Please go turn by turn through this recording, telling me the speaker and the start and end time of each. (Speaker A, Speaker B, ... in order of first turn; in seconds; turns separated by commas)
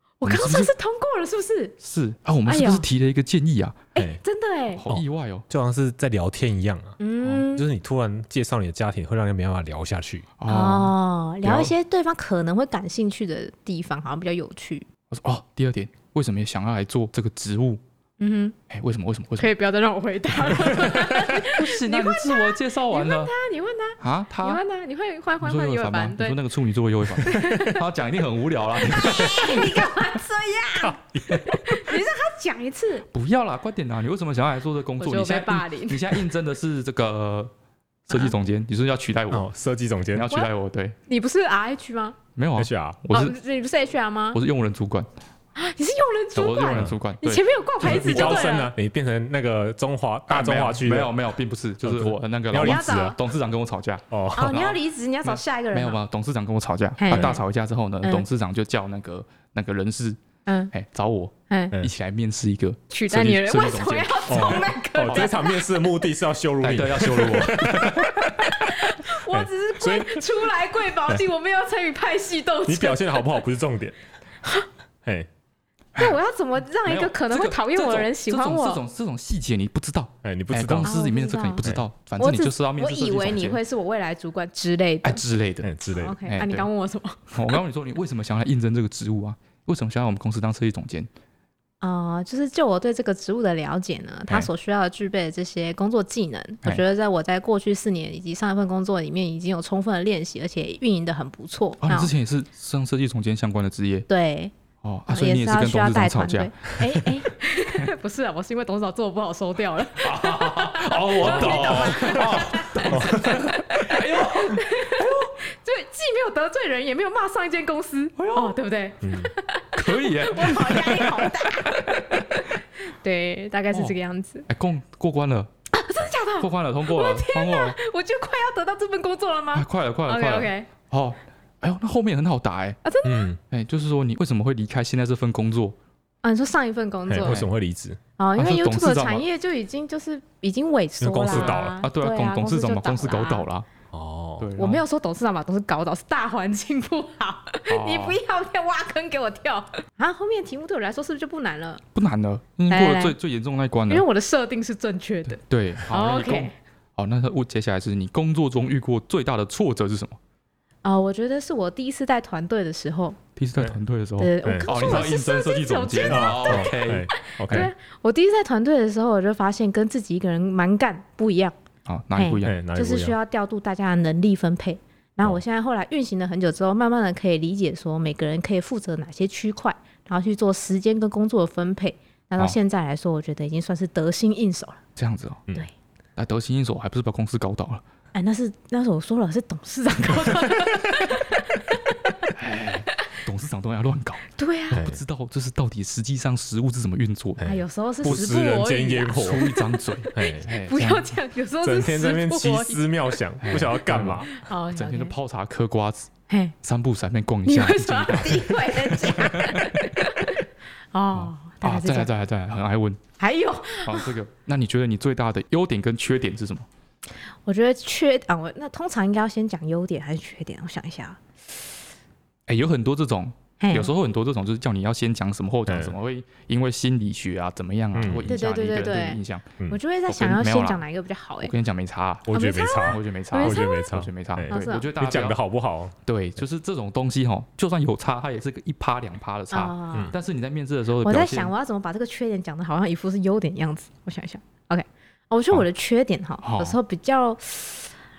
Speaker A: 0.2-1.8, Speaker B: 0.2-0.7, Speaker B: 1.8-3.9, Speaker A: 2.5-2.9, Speaker A: 4.0-4.8, Speaker B: 4.7-5.5, Speaker C: 4.9-10.3, Speaker A: 7.0-7.7, Speaker B: 10.4-10.9, Speaker A: 10.5-14.8, Speaker B: 15.1-17.8, Speaker A: 18.2-18.6, Speaker B: 18.7-19.5, Speaker A: 19.4-26.4, Speaker B: 21.3-23.3, Speaker B: 24.0-24.6, Speaker B: 25.4-29.9, Speaker A: 27.2-27.8, Speaker A: 28.8-33.1, Speaker B: 31.3-31.6, Speaker B: 33.1-37.5, Speaker A: 35.0-36.2, Speaker B: 38.1-39.5, Speaker C: 39.3-40.3, Speaker B: 40.1-41.0, Speaker A: 41.1-42.2, Speaker B: 42.4-43.4, Speaker C: 42.6-43.0, Speaker A: 43.1-44.4, Speaker B: 44.3-45.1, Speaker A: 45.6-48.7, Speaker B: 46.4-48.6, Speaker C: 47.8-51.2, Speaker B: 50.3-60.2, Speaker C: 51.8-53.2, Speaker A: 52.6-53.2, Speaker C: 54.1-54.5, Speaker A: 54.3-56.0, Speaker A: 57.0-57.4, Speaker A: 60.5-60.7, Speaker B: 60.7-65.3, Speaker A: 61.5-61.8, Speaker A: 62.9-65.6, Speaker C: 64.3-68.3, Speaker B: 66.6-68.5, Speaker A: 68.4-73.4, Speaker C: 69.0-70.3, Speaker C: 72.7-74.0, Speaker A: 76.0-78.8, Speaker B: 76.8-83.6, Speaker C: 80.2-80.9, Speaker A: 80.8-81.7, Speaker A: 82.2-85.2, Speaker B: 85.0-86.7, Speaker C: 85.6-86.2, Speaker A: 85.9-87.5, Speaker B: 87.3-91.1, Speaker A: 91.8-102.1, Speaker B: 101.8-104.1, Speaker A: 104.1-104.5, Speaker B: 104.8-106.7, Speaker A: 105.1-124.5, Speaker B: 110.0-115.4, Speaker C: 111.2-113.5, Speaker B: 118.2-118.6, Speaker C: 119.0-119.3, Speaker B: 119.8-122.4, Speaker B: 124.5-125.5, Speaker A: 125.7-130.7, Speaker B: 126.4-127.8, Speaker B: 129.5-132.8, Speaker A: 132.8-133.3, Speaker C: 133.0-133.4, Speaker B: 133.5-135.8, Speaker A: 136.2-137.5, Speaker C: 137.1-138.0, Speaker B: 137.2-137.5, Speaker A: 138.2-143.5, Speaker B: 138.4-139.2, Speaker C: 141.0-141.8, Speaker B: 141.3-143.7, Speaker C: 143.9-144.5, Speaker B: 144.4-144.8, Speaker A: 144.6-151.8, Speaker B: 147.7-148.2, Speaker B: 151.9-154.1, Speaker A: 152.7-153.2, Speaker A: 153.9-156.5, Speaker B: 155.3-160.2, Speaker A: 160.8-163.2, Speaker B: 163.4-167.7, Speaker A: 164.2-171.6, Speaker C: 164.4-164.9, Speaker C: 166.1-167.7, Speaker B: 171.9-172.6, Speaker A: 172.2-184.8, Speaker C: 172.4-173.2, Speaker B: 185.0-185.5, Speaker B: 186.2-187.8, Speaker A: 188.1-192.3, Speaker B: 192.3-197.5, Speaker A: 194.3-194.8, Speaker C: 194.7-195.0, Speaker C: 197.4-199.5, Speaker A: 197.4-202.9, Speaker B: 199.2-201.1, Speaker C: 200.1-200.5, Speaker C: 201.6-204.3, Speaker B: 203.4-206.1, Speaker A: 204.3-205.1, Speaker A: 206.3-206.6, Speaker B: 206.6-209.9, Speaker A: 207.4-212.1, Speaker B: 211.1-213.0, Speaker A: 213.2-214.1, Speaker B: 213.8-216.7, Speaker A: 217.5-221.2, Speaker B: 222.5-230.8, Speaker A: 223.6-223.9, Speaker C: 225.7-226.0, Speaker C: 227.9-228.3, Speaker A: 228.3-231.5, Speaker B: 231.4-235.4, Speaker C: 232.3-236.0, Speaker A: 232.3-233.9, Speaker A: 234.5-234.9, Speaker B: 236.1-241.5, Speaker A: 239.5-240.1, Speaker A: 241.0-247.9, Speaker B: 246.4-246.8